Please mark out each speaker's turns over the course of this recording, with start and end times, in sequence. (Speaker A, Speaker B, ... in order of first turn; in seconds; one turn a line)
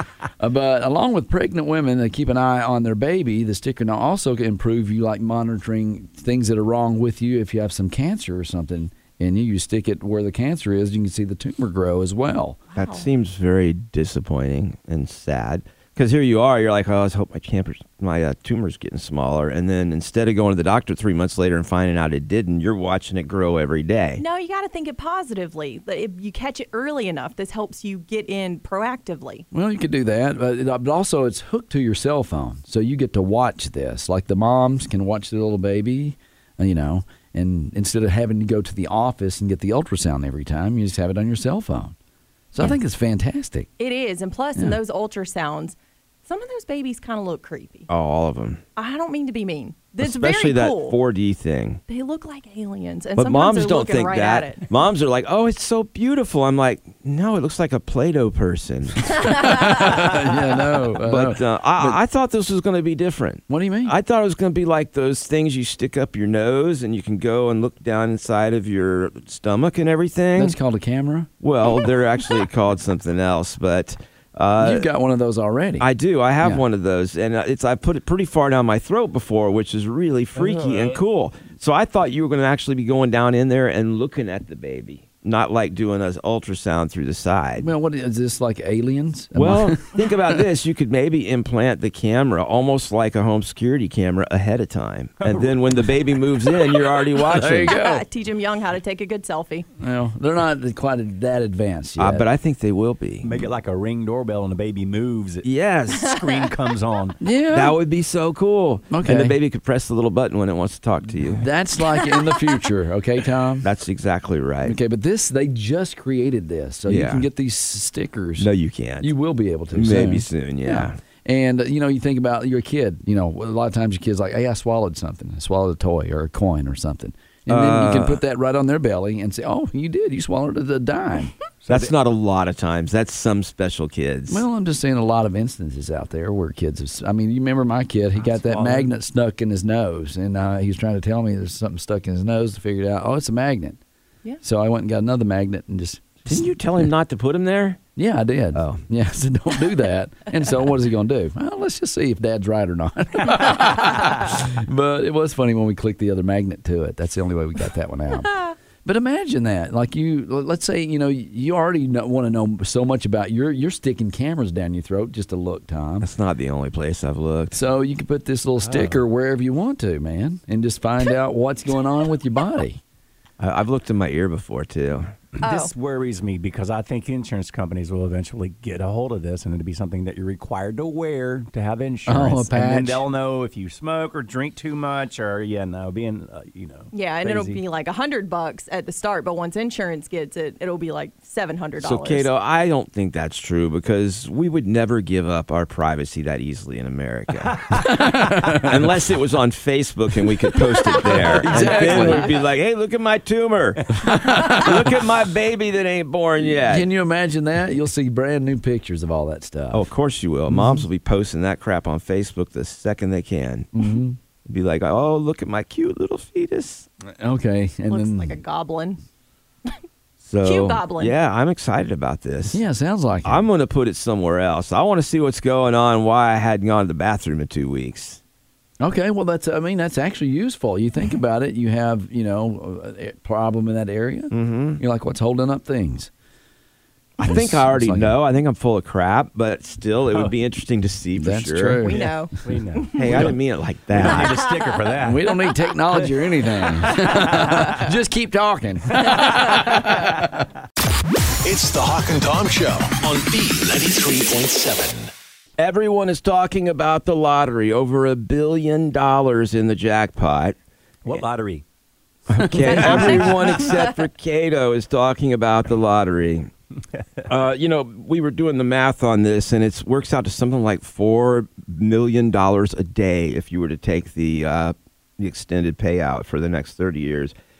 Speaker A: 0.4-12.6
Speaker B: 12.7-13.1
Speaker C: 12.8-24.2
Speaker B: 24.2-29.5
Speaker A: 29.5-42.0
Speaker A: 42.5-43.7
Speaker B: 43.8-47.9
Speaker C: 47.9-48.6
Speaker B: 48.8-51.0
Speaker C: 50.0-51.8
Speaker B: 51.9-54.7
Speaker C: 53.2-59.3
Speaker A: 59.1-62.0
Speaker C: 61.0-70.6
Speaker A: 63.5-64.0
Speaker A: 70.3-71.3
Speaker C: 71.4-74.9
Speaker A: 74.6-75.9
Speaker C: 75.8-87.7
Speaker D: 80.4-81.0
Speaker A: 87.6-90.1
Speaker C: 89.3-97.8
Speaker D: 95.2-96.0
Speaker A: 97.3-98.0
Speaker B: 97.7-99.7
Speaker A: 99.8-102.3
Speaker C: 102.0-103.3
Speaker D: 103.2-105.5
Speaker C: 105.4-106.1
Speaker D: 106.0-107.2
Speaker A: 107.2-107.8
Speaker C: 107.5-111.5
Speaker A: 108.9-109.4
Speaker A: 111.4-113.7
Speaker C: 113.6-114.8
Speaker A: 114.6-118.5
Speaker C: 116.9-117.3
Speaker C: 118.4-119.1
Speaker A: 119.0-131.3
Speaker C: 119.7-121.0
Speaker C: 127.5-128.2
Speaker C: 131.7-134.5
Speaker A: 134.3-143.8
Speaker D: 138.2-138.9
Speaker A: 144.4-146.6
Speaker C: 146.3-147.8
Speaker A: 148.0-166.1
Speaker C: 148.6-148.8
Speaker C: 166.0-167.6
Speaker A: 167.5-172.8
Speaker D: 168.6-169.0
Speaker C: 173.4-175.1
Speaker D: 175.4-187.6
Speaker B: 175.4-175.7
Speaker A: 182.1-183.1
Speaker B: 186.9-192.3
Speaker C: 191.8-197.9
Speaker D: 197.6-198.0
Speaker A: 197.8-198.7
Speaker C: 198.5-206.9
Speaker A: 201.3-202.3
Speaker D: 201.5-202.2
Speaker A: 204.0-204.7
Speaker A: 206.7-209.9
Speaker C: 209.7-213.7
Speaker A: 210.5-210.8
Speaker A: 213.7-214.2
Speaker C: 214.5-216.9
Speaker A: 217.2-218.4
Speaker B: 217.9-219.0
Speaker C: 220.2-222.6
Speaker B: 220.4-221.1
Speaker A: 222.5-223.5
Speaker C: 223.2-228.2
Speaker A: 228.8-236.1
Speaker C: 234.3-234.8
Speaker C: 237.2-241.8
Speaker A: 237.2-238.2
Speaker A: 241.2-242.0
Speaker B: 241.8-243.2
Speaker D: 241.9-243.4
Speaker C: 242.9-244.4
Speaker D: 243.9-245.4
Speaker A: 245.0-250.4
Speaker D: 246.0-247.8
Speaker D: 249.0-249.4
Speaker E: 251.4-255.1
Speaker C: 255.6-260.6
Speaker D: 261.1-261.6
Speaker C: 262.3-266.5
Speaker D: 262.4-263.7
Speaker B: 262.6-263.8
Speaker D: 266.9-267.3
Speaker C: 267.3-277.4